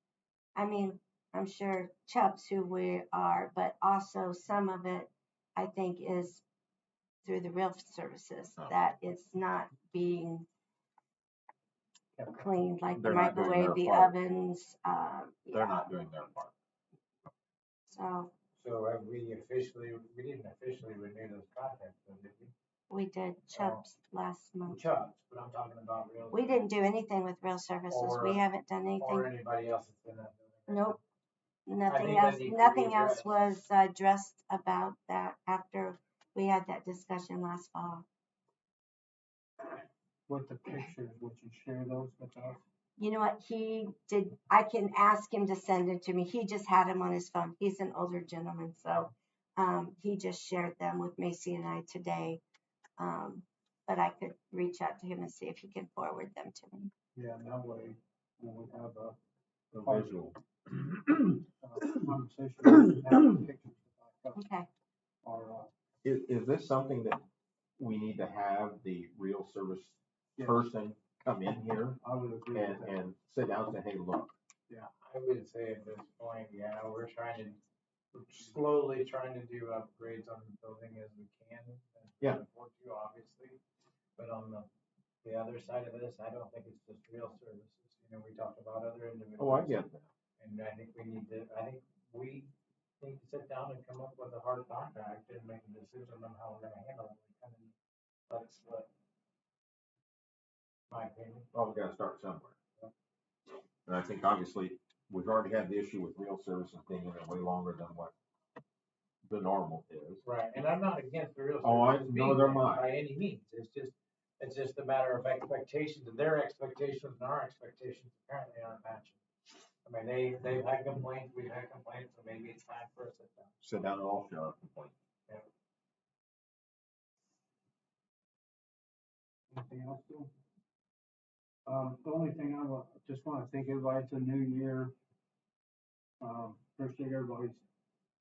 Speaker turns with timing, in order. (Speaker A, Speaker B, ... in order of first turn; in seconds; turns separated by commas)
Speaker A: 0.6-6.4, Speaker A: 7.2-10.5, Speaker B: 12.2-12.5, Speaker A: 12.3-15.9, Speaker C: 12.9-14.2, Speaker C: 15.5-16.5, Speaker A: 17.9-18.3, Speaker D: 18.6-22.5, Speaker A: 22.9-24.8, Speaker D: 23.5-23.8, Speaker D: 24.7-26.6, Speaker A: 26.3-29.3, Speaker D: 27.9-28.5, Speaker D: 29.0-31.0, Speaker A: 30.7-31.0, Speaker A: 31.7-38.1, Speaker D: 31.9-33.3, Speaker B: 40.3-42.6, Speaker A: 43.0-52.4, Speaker A: 53.0-56.9, Speaker B: 57.1-59.2, Speaker B: 59.7-60.2, Speaker C: 59.7-61.0, Speaker B: 61.6-64.4, Speaker A: 64.3-64.7, Speaker B: 65.2-65.7, Speaker C: 66.0-67.2, Speaker C: 67.8-72.0, Speaker B: 70.4-70.6, Speaker B: 71.9-73.0, Speaker C: 72.5-74.4, Speaker D: 74.9-77.6, Speaker D: 78.1-83.6, Speaker D: 84.2-84.7, Speaker D: 85.2-89.8, Speaker C: 89.4-90.1, Speaker D: 90.4-97.7, Speaker D: 98.3-98.9, Speaker D: 100.9-101.5, Speaker C: 101.5-102.5, Speaker C: 103.9-108.1, Speaker C: 109.2-110.2, Speaker D: 110.2-119.2, Speaker C: 111.6-112.9, Speaker D: 119.8-123.6, Speaker C: 123.6-124.9, Speaker B: 129.5-130.3, Speaker B: 131.7-134.9, Speaker B: 136.2-137.6